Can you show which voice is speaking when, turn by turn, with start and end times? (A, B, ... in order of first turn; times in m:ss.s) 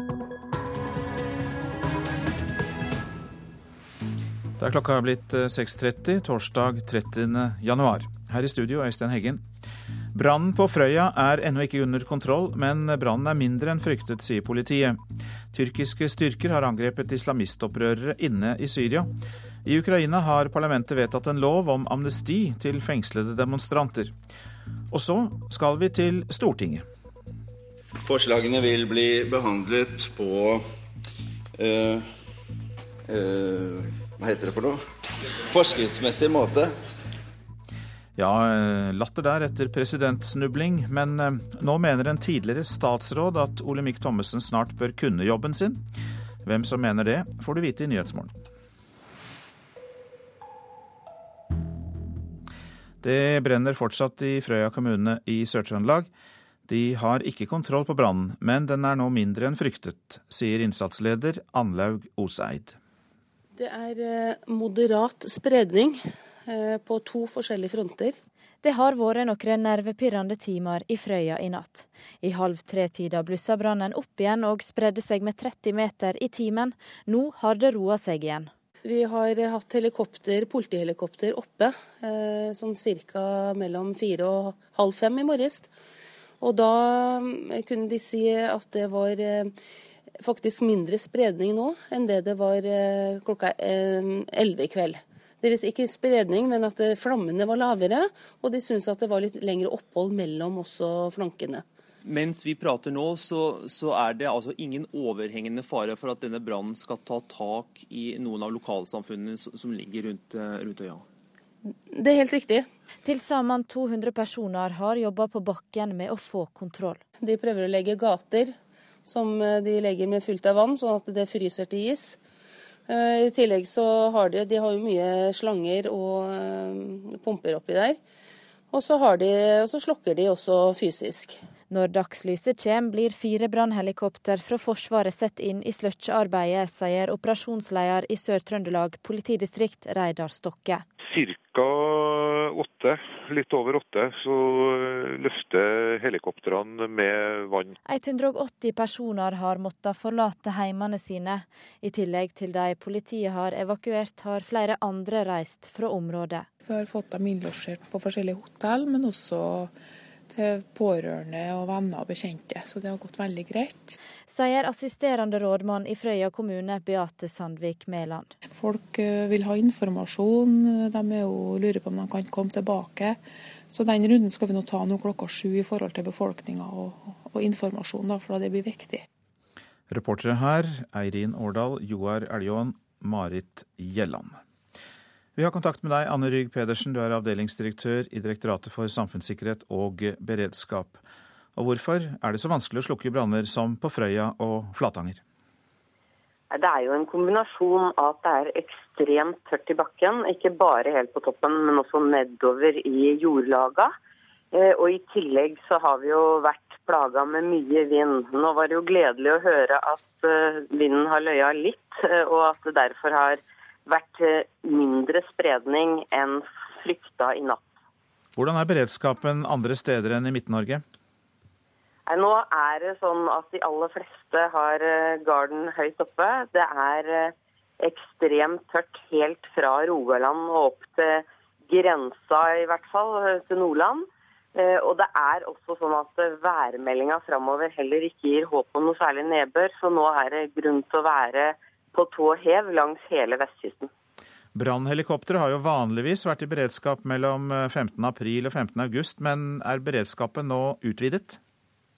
0:04.6-0:09.4 A
0:10.1-0:15.0 A
0:15.5-0:19.1 A
0:19.6-0:24.1 A
0:24.9-0:26.8 A
0:28.0-0:30.6 B
0:31.6-0:32.0 B
0:33.1-0:34.8 B
0:35.3-0:36.7 B
0:38.2-0:45.8 A
0:46.4-0:48.3 A
0:53.0-0:56.1 A
0:56.7-1:02.8 A
1:03.5-1:08.2 C
1:08.6-1:18.5 D
1:18.8-1:25.7 C
1:26.4-1:29.5 C
1:30.2-1:41.6 C
1:42.0-1:51.0 E
1:51.9-1:52.6 C
1:53.0-1:57.0 D
1:57.2-1:58.5 C
1:59.0-2:02.2 C
2:02.9-2:08.0 C
2:08.7-2:11.4 C
2:11.7-2:20.8 D
2:21.1-2:27.7 F
2:27.8-2:36.5 D
2:36.6-2:39.7 G
2:40.3-2:44.0 G
2:44.3-2:48.3 D
2:48.5-2:59.0 G
2:59.9-3:04.4 A
3:05.4-3:11.0 A
3:11.6-3:15.2 A
3:16.5-3:23.9 H
3:24.5-3:37.6 H
3:38.4-3:40.8 A
3:42.1-4:03.9 H
4:04.5-4:11.4 A